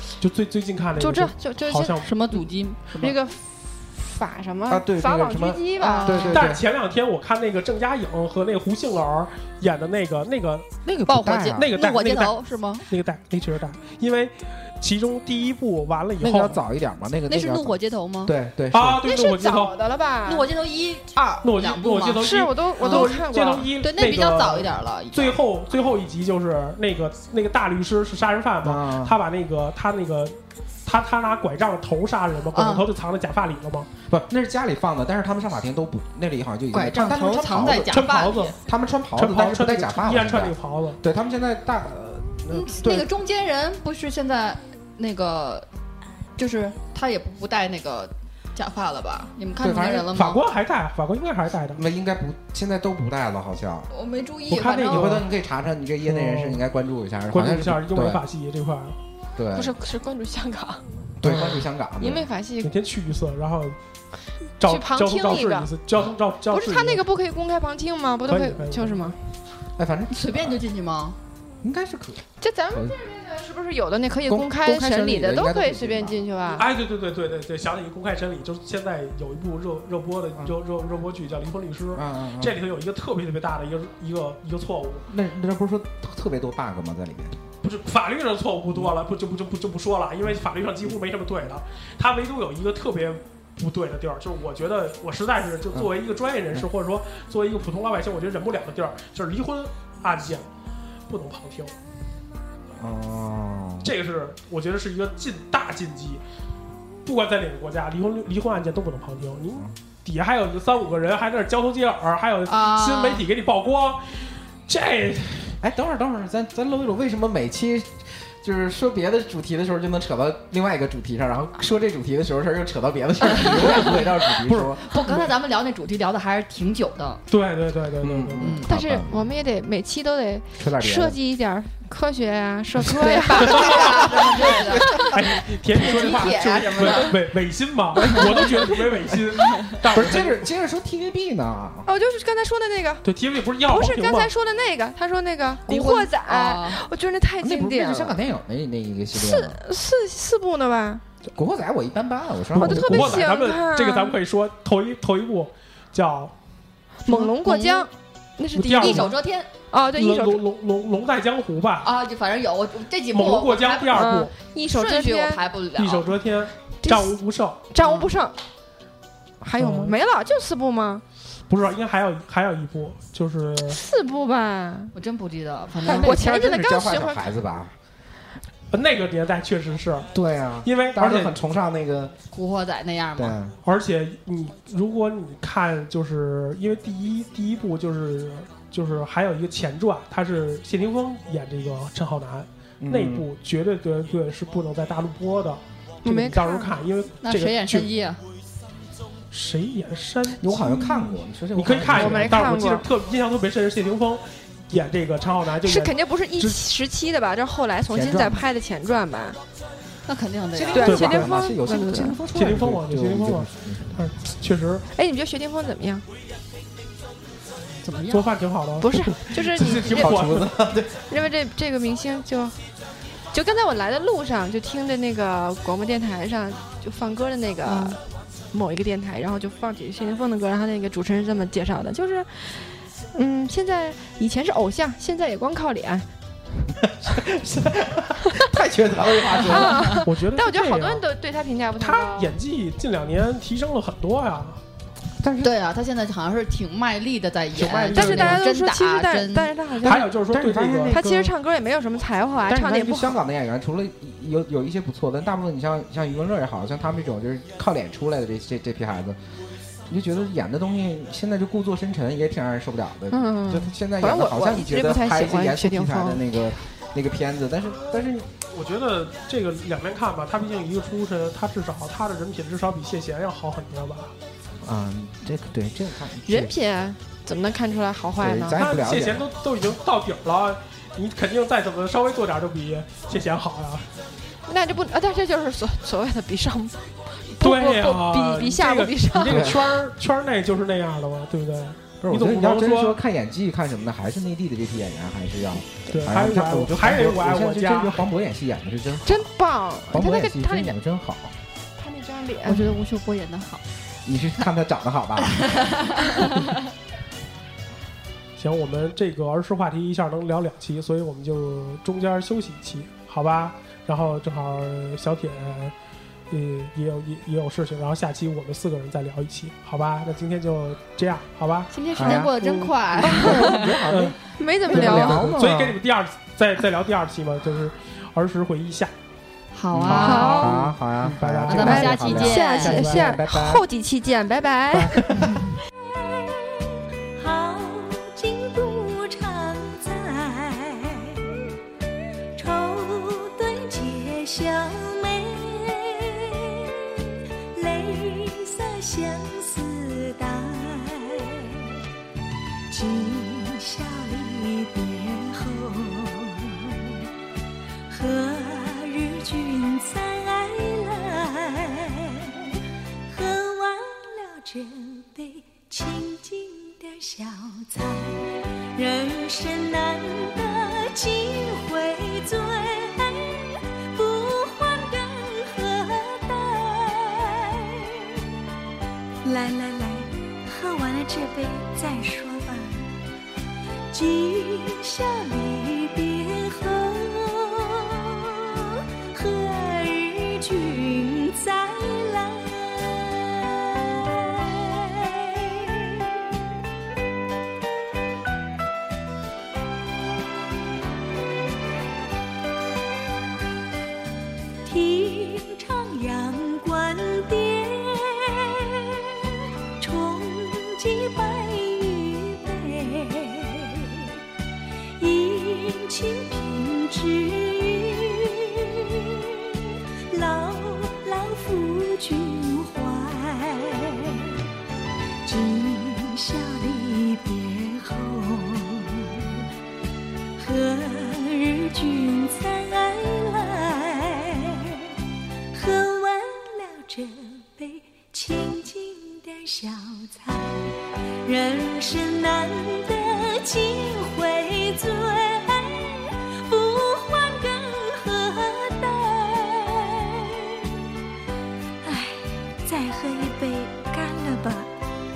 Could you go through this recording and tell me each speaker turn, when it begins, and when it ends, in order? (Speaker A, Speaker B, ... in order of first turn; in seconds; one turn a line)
Speaker A: 0.2-2.1
Speaker B: 1.0-2.4
Speaker C: 2.0-3.2
Speaker B: 3.0-6.4
Speaker D: 4.7-6.6
Speaker C: 5.8-6.5
Speaker A: 6.3-10.7
Speaker D: 10.8-11.7
Speaker C: 11.1-12.8
Speaker A: 11.6-16.6
Speaker D: 16.2-19.1
Speaker C: 17.3-18.3
Speaker A: 18.7-19.7
Speaker B: 19.0-20.5
Speaker C: 20.3-22.2
Speaker A: 21.4-30.4
Speaker B: 22.2-23.7
Speaker C: 22.8-23.2
Speaker C: 23.8-25.4
Speaker D: 28.6-29.2
Speaker A: 30.9-33.9
Speaker C: 32.5-32.9
Speaker D: 34.1-38.0
Speaker C: 36.7-38.5
Speaker A: 37.9-38.6
Speaker D: 38.7-43.1
Speaker A: 39.2-41.0
Speaker C: 42.5-45.7
Speaker C: 46.4-50.4
Speaker D: 49.6-50.1
Speaker A: 50.1-51.8
Speaker D: 51.8-53.9
Speaker C: 53.9-55.1
Speaker A: 54.5-55.3
Speaker D: 54.9-58.2
Speaker A: 56.0-56.6
Speaker A: 57.3-59.0
Speaker D: 59.4-59.8
Speaker B: 59.5-60.8
Speaker D: 61.2-62.3
Speaker A: 61.2-61.6
Speaker B: 62.0-62.7
Speaker A: 62.6-63.8
Speaker A: 64.6-67.1
Speaker B: 64.6-65.7
Speaker B: 66.5-69.2
Speaker A: 68.2-69.2
Speaker D: 69.8-70.6
Speaker C: 70.1-71.2
Speaker D: 71.6-73.0
Speaker B: 72.4-76.7
Speaker D: 74.2-76.2
Speaker A: 76.6-85.0
Speaker D: 82.0-82.6
Speaker D: 85.1-87.4
Speaker A: 87.6-100.5
Speaker A: 101.1-101.7
Speaker D: 102.8-103.9
Speaker A: 103.8-106.2
Speaker A: 107.0-115.6
Speaker C: 112.5-113.2
Speaker D: 115.6-124.8
Speaker C: 123.4-123.8
Speaker A: 124.5-125.2
Speaker C: 124.8-127.2
Speaker A: 127.3-128.6
Speaker D: 128.0-129.3
Speaker C: 128.4-128.7
Speaker B: 128.7-135.1
Speaker D: 130.6-131.2
Speaker C: 132.9-135.1
Speaker A: 133.3-134.1
Speaker A: 135.0-140.4
Speaker C: 135.7-137.2
Speaker D: 139.9-141.9
Speaker B: 141.9-143.1
Speaker A: 143.0-144.3
Speaker B: 143.7-148.2
Speaker C: 145.7-146.8
Speaker D: 147.4-149.6
Speaker B: 149.1-151.0
Speaker D: 151.3-153.3
Speaker A: 152.5-156.3
Speaker B: 152.6-154.2
Speaker B: 157.1-159.1
Speaker C: 157.4-157.9
Speaker A: 158.5-159.1
Speaker C: 158.8-159.5
Speaker B: 159.7-160.4
Speaker A: 159.9-161.9
Speaker C: 161.8-164.1
Speaker A: 163.1-164.3
Speaker B: 163.9-165.4
Speaker C: 164.7-166.1
Speaker A: 165.8-167.6
Speaker B: 166.8-167.2
Speaker B: 167.7-168.4
Speaker C: 167.8-168.1
Speaker B: 169.4-171.0
Speaker A: 169.6-170.0
Speaker A: 171.5-173.8
Speaker B: 173.7-174.9
Speaker C: 174.9-176.2
Speaker D: 175.8-177.8
Speaker B: 175.9-177.2
Speaker A: 178.7-180.1
Speaker D: 180.1-182.1
Speaker A: 180.6-181.3
Speaker C: 182.3-183.4
Speaker D: 183.2-183.6
Speaker A: 183.7-197.9
Speaker D: 192.8-193.3
Speaker B: 196.1-196.8
Speaker C: 197.2-198.2
Speaker A: 199.3-200.8
Speaker D: 200.4-202.4
Speaker A: 201.5-206.7
Speaker B: 201.8-202.8
Speaker B: 205.6-209.4
Speaker D: 207.9-208.5
Speaker C: 210.1-211.0
Speaker D: 210.5-214.0
Speaker B: 210.8-212.2
Speaker A: 210.8-211.3
Speaker A: 212.3-214.8
Speaker B: 214.9-216.1
Speaker C: 217.8-218.3
Speaker A: 218.1-220.5
Speaker B: 218.8-220.2
Speaker D: 219.6-221.2
Speaker B: 221.1-222.6
Speaker B: 223.3-236.1
Speaker C: 227.6-228.0
Speaker D: 237.0-240.0
Speaker B: 239.3-242.3
Speaker A: 240.0-241.1
Speaker A: 241.8-244.6
Speaker D: 245.2-245.5
Speaker C: 245.4-249.6
Speaker D: 247.5-248.4
Speaker B: 247.9-250.1
Speaker D: 249.8-251.3
Speaker A: 249.8-251.0
Speaker B: 250.9-253.2
Speaker D: 252.5-259.2
Speaker D: 259.9-268.3
Speaker B: 263.1-266.5
Speaker A: 268.3-274.1
Speaker D: 274.6-276.6
Speaker B: 276.3-278.6
Speaker D: 278.2-279.3
Speaker A: 278.6-283.9
Speaker B: 284.5-289.6
Speaker A: 287.4-293.0
Speaker D: 289.3-289.6
Speaker D: 292.0-299.3
Speaker A: 295.9-298.1
Speaker B: 299.1-300.7
Speaker D: 299.9-301.4
Speaker B: 301.8-302.7
Speaker C: 302.4-303.6
Speaker D: 304.1-305.8
Speaker C: 305.7-306.3
Speaker A: 308.4-315.7
Speaker A: 316.3-321.7
Speaker C: 321.7-323.7
Speaker D: 322.0-322.3
Speaker B: 322.0-322.4
Speaker A: 323.0-323.2
Speaker D: 323.0-324.2
Speaker B: 323.2-323.8
Speaker A: 323.9-324.2
Speaker B: 324.4-325.3
Speaker D: 324.7-325.8
Speaker A: 324.7-328.9
Speaker C: 329.5-330.6
Speaker D: 329.7-333.7
Speaker B: 329.9-330.6
Speaker A: 331.0-332.1
Speaker C: 331.4-333.0
Speaker B: 331.6-335.0
Speaker D: 334.7-335.5
Speaker E: 335.8-341.4
Speaker E: 342.4-346.7
Speaker E: 347.5-351.7
Speaker E: 352.7-357.0
Speaker E: 357.9-378.0
Speaker E: 379.2-382.9
Speaker E: 383.9-396.2
Speaker E: 404.6-409.1
Speaker E: 409.8-414.1
Speaker E: 415.0-424.4
Speaker E: 425.2-429.4
Speaker E: 430.4-434.9
Speaker E: 435.5-450.6
Speaker E: 451.8-454.7